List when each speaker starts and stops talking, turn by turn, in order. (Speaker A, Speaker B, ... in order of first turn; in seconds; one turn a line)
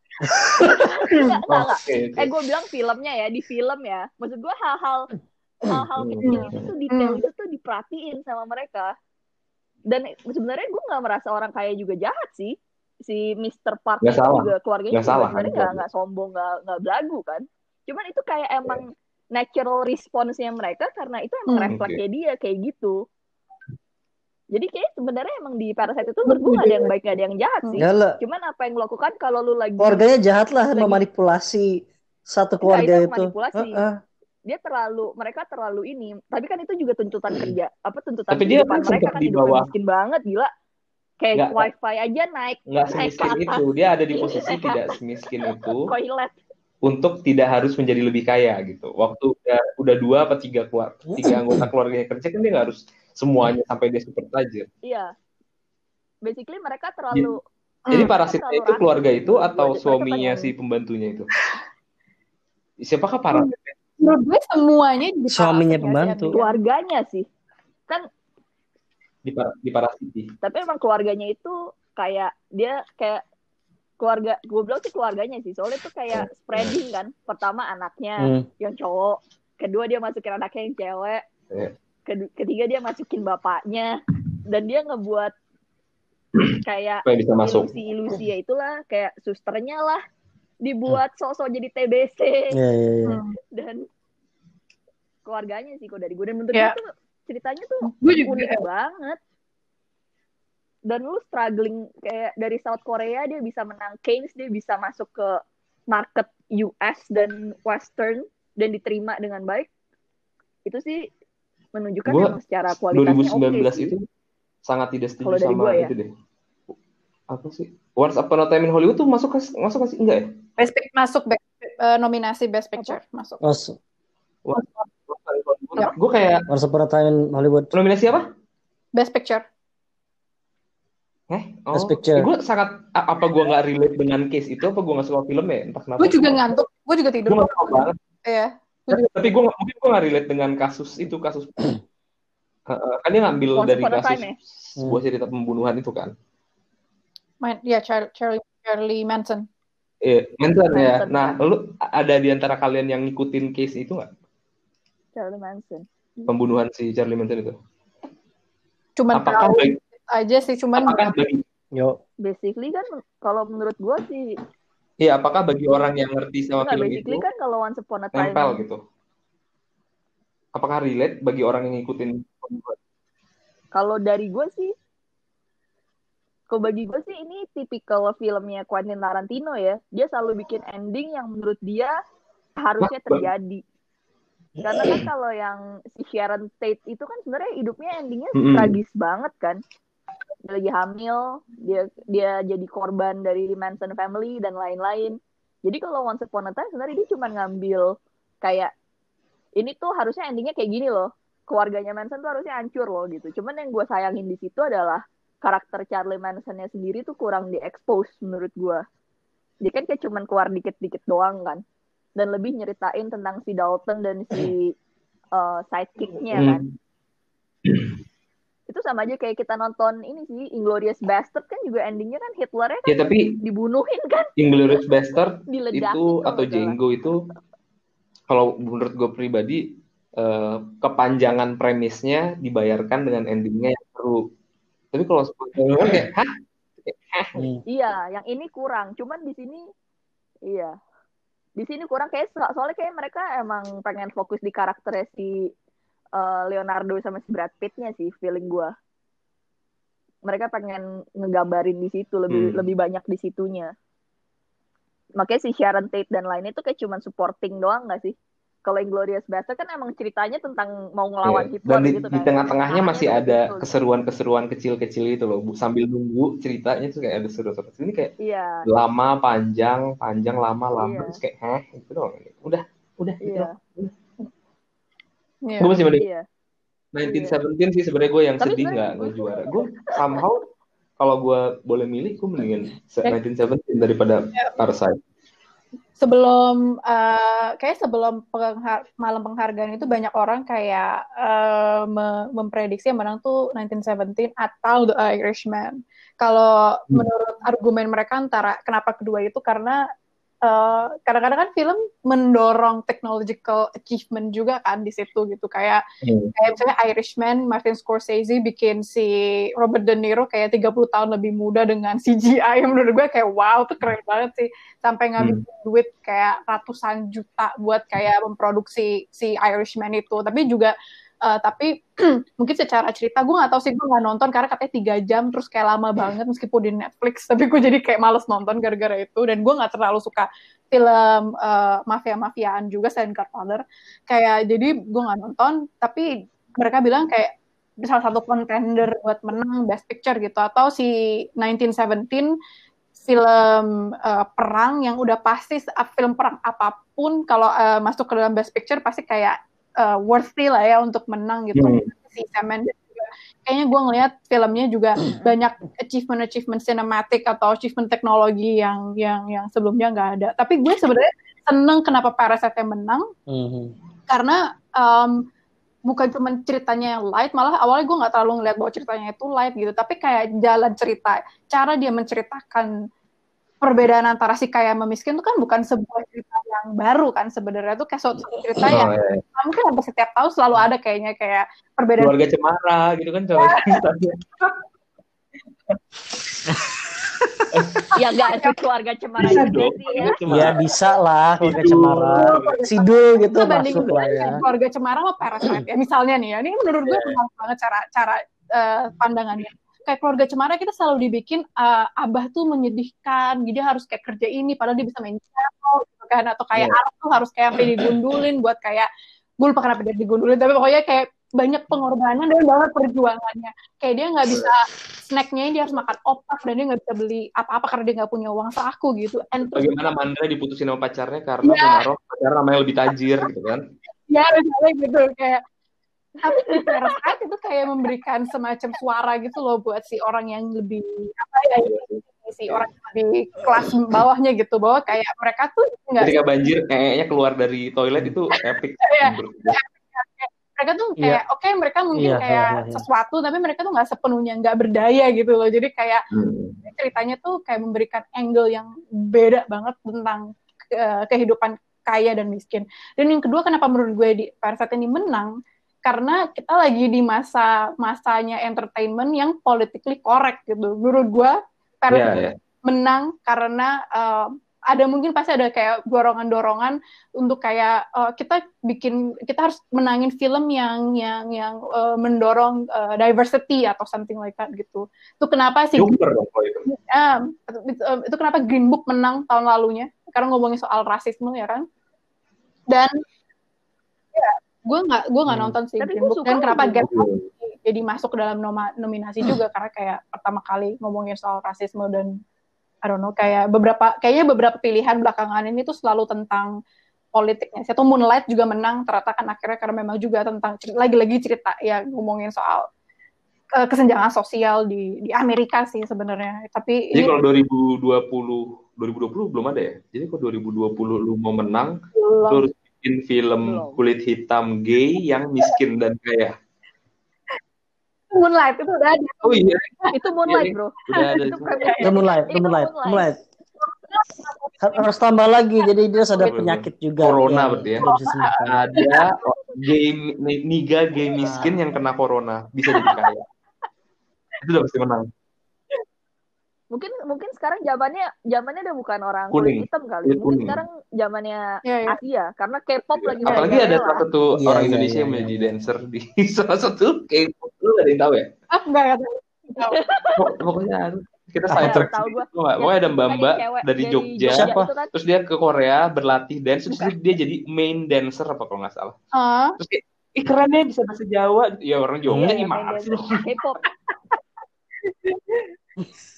Speaker A: 0.2-0.6
Speaker B: 0.3-1.4
Speaker C: 0.6-5.1
Speaker D: 1.5-2.3
Speaker C: 5.6-8.9
Speaker D: 6.0-6.7
Speaker B: 6.2-7.2
Speaker C: 9.9-23.0
Speaker D: 14.0-15.8
Speaker D: 21.7-22.0
Speaker C: 24.5-30.0
Speaker B: 26.4-26.9
Speaker A: 27.8-28.2
Speaker A: 29.8-34.0
Speaker C: 32.6-33.8
Speaker C: 34.5-40.5
Speaker D: 38.3-39.7
Speaker C: 41.2-43.6
Speaker D: 41.3-41.6
Speaker D: 42.7-45.9
Speaker C: 44.1-44.9
Speaker C: 45.9-46.4
Speaker D: 46.8-54.7
Speaker A: 51.2-51.6
Speaker C: 54.8-55.1
Speaker C: 56.2-57.4
Speaker B: 57.9-58.1
Speaker D: 57.9-61.3
Speaker C: 58.1-60.5
Speaker D: 62.8-63.7
Speaker B: 63.3-66.6
Speaker A: 65.3-66.3
Speaker C: 66.3-67.3
Speaker D: 69.2-70.3
Speaker C: 70.4-73.2
Speaker C: 74.0-81.2
Speaker D: 76.1-76.8
Speaker A: 78.2-78.5
Speaker C: 82.1-85.3
Speaker D: 86.3-87.7
Speaker C: 86.6-90.0
Speaker C: 90.6-92.6
Speaker A: 92.5-93.2
Speaker B: 93.0-93.3
Speaker C: 93.5-93.9
Speaker C: 95.2-99.2
Speaker B: 97.9-98.6
Speaker C: 100.8-105.4
Speaker C: 105.9-109.7
Speaker C: 110.7-111.1
Speaker C: 111.7-113.9
Speaker D: 112.1-114.0
Speaker D: 114.7-116.1
Speaker C: 115.2-115.9
Speaker D: 117.3-120.3
Speaker B: 120.6-123.4
Speaker A: 123.4-123.8
Speaker D: 124.4-126.5
Speaker B: 124.5-124.8
Speaker A: 126.5-127.7
Speaker D: 127.7-128.3
Speaker B: 128.9-129.4
Speaker D: 131.3-136.4
Speaker A: 131.7-132.3
Speaker B: 136.0-139.0
Speaker D: 137.2-138.0
Speaker D: 138.9-141.8
Speaker D: 142.7-146.1
Speaker C: 143.5-144.3
Speaker B: 147.4-149.4
Speaker D: 150.0-154.1
Speaker C: 150.7-151.4
Speaker C: 155.2-155.8
Speaker D: 156.3-157.6
Speaker B: 159.0-161.1
Speaker D: 159.1-159.8
Speaker D: 160.8-161.4
Speaker C: 162.2-164.3
Speaker D: 165.0-167.2
Speaker C: 166.6-168.6
Speaker D: 168.1-168.8
Speaker D: 170.5-172.8
Speaker C: 173.7-174.7
Speaker C: 176.5-181.9
Speaker C: 182.6-183.6
Speaker D: 182.8-183.3
Speaker C: 184.6-189.6
Speaker D: 184.8-185.0
Speaker D: 188.3-188.8
Speaker C: 190.4-198.7
Speaker C: 199.6-208.8
Speaker C: 209.6-211.6
Speaker C: 212.2-214.7
Speaker C: 215.3-216.6
Speaker D: 216.3-216.7
Speaker D: 217.7-217.9
Speaker C: 218.7-224.3
Speaker D: 222.9-223.4
Speaker D: 224.4-227.3
Speaker C: 225.5-226.8
Speaker D: 228.3-234.2
Speaker D: 234.9-236.3
Speaker D: 236.8-237.4
Speaker A: 237.3-237.6
Speaker C: 237.7-239.6
Speaker C: 240.4-240.7
Speaker C: 241.6-245.5
Speaker C: 246.1-248.7
Speaker C: 250.3-253.7
Speaker D: 252.3-252.7
Speaker C: 255.2-263.7
Speaker D: 261.2-268.1
Speaker C: 268.2-268.6
Speaker D: 268.6-273.9
Speaker C: 270.8-271.2
Speaker C: 273.2-273.5
Speaker B: 275.4-275.7
Speaker D: 275.6-276.0
Speaker C: 276.0-276.2
Speaker D: 276.9-280.4
Speaker C: 277.0-277.3
Speaker C: 278.4-279.9
Speaker D: 281.0-285.0
Speaker B: 286.0-299.8
Speaker B: 300.4-305.8
Speaker D: 306.0-306.3
Speaker B: 306.4-320.7
Speaker D: 315.2-315.4
Speaker B: 321.2-342.3
Speaker B: 343.1-363.1
Speaker D: 351.5-351.9
Speaker A: 363.3-363.7
Speaker B: 364.1-365.2
Speaker B: 365.9-372.7
Speaker B: 373.6-382.1
Speaker D: 378.6-379.2
Speaker D: 382.0-384.5
Speaker B: 383.4-383.8
Speaker D: 387.5-387.9
Speaker C: 387.9-390.1
Speaker B: 388.3-388.6
Speaker D: 389.2-390.6
Speaker B: 389.2-390.1
Speaker A: 390.3-394.4
Speaker D: 391.4-392.7
Speaker B: 392.0-408.9
Speaker D: 393.4-394.4
Speaker D: 396.8-397.2
Speaker D: 407.6-407.9
Speaker B: 409.4-419.7
Speaker D: 419.5-423.6
Speaker B: 421.4-421.8
Speaker B: 424.1-425.4
Speaker B: 426.2-436.1
Speaker C: 426.4-426.7
Speaker D: 431.6-432.6
Speaker D: 436.0-439.6
Speaker B: 438.9-446.0
Speaker A: 441.9-442.8
Speaker D: 446.1-446.6
Speaker B: 446.6-455.3
Speaker B: 455.8-475.9
Speaker D: 461.9-462.4
Speaker D: 475.8-476.7
Speaker B: 476.7-481.6
Speaker B: 482.7-483.0
Speaker B: 484.1-492.2
Speaker C: 485.8-486.8
Speaker D: 486.7-487.3
Speaker B: 492.8-496.5
Speaker B: 497.1-502.7
Speaker B: 503.6-507.1
Speaker D: 506.9-511.8
Speaker B: 511.9-512.4
Speaker D: 512.3-516.3
Speaker C: 513.4-513.8
Speaker B: 518.1-519.9
Speaker D: 519.2-521.7
Speaker C: 519.9-523.1
Speaker B: 520.9-521.9
Speaker A: 521.8-523.2
Speaker B: 523.7-524.9
Speaker A: 524.6-528.6
Speaker D: 526.2-527.9
Speaker B: 527.8-529.1
Speaker D: 528.4-533.2
Speaker A: 531.2-531.5
Speaker D: 534.4-535.1
Speaker C: 536.7-544.0
Speaker D: 539.3-540.6
Speaker B: 541.6-542.0
Speaker D: 543.0-548.3
Speaker B: 543.2-543.6
Speaker A: 544.4-545.9
Speaker B: 548.5-549.8
Speaker C: 549.6-550.2
Speaker D: 550.2-559.0
Speaker A: 551.5-551.8
Speaker C: 551.6-554.9
Speaker A: 554.3-554.7
Speaker B: 559.2-559.5
Speaker D: 559.6-563.2
Speaker A: 562.0-562.4
Speaker C: 562.2-563.6
Speaker B: 563.9-564.2
Speaker B: 564.9-565.5